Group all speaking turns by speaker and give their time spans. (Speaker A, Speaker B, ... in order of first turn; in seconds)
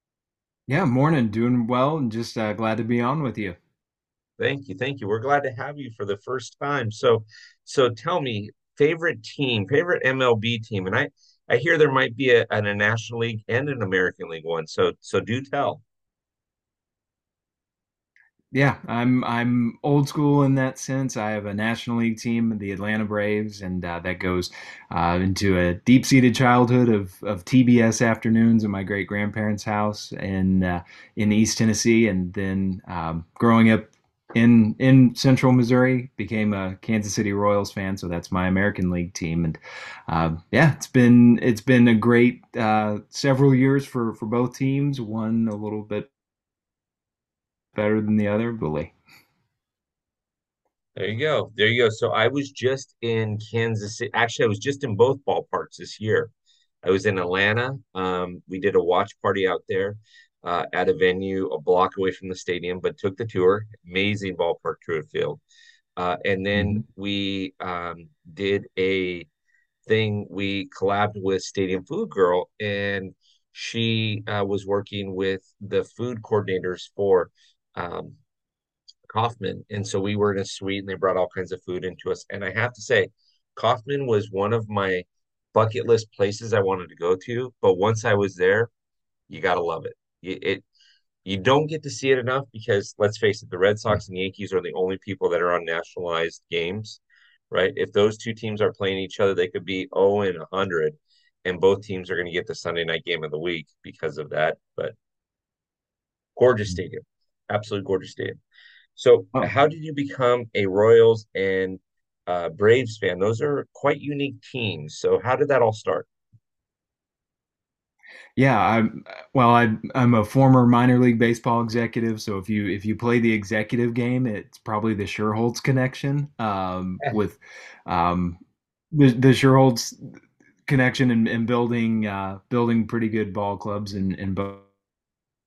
Speaker A: 0.7-3.6, 18.5-46.1, 47.7-48.9, 66.6-66.8, 118.4-128.4, 128.9-134.7
Speaker B: 4.4-15.8, 51.0-56.3, 56.8-65.4, 66.0-69.3, 69.8-78.2, 79.1-88.7, 89.3-90.7, 91.2-105.0, 106.4-108.4, 109.0-116.1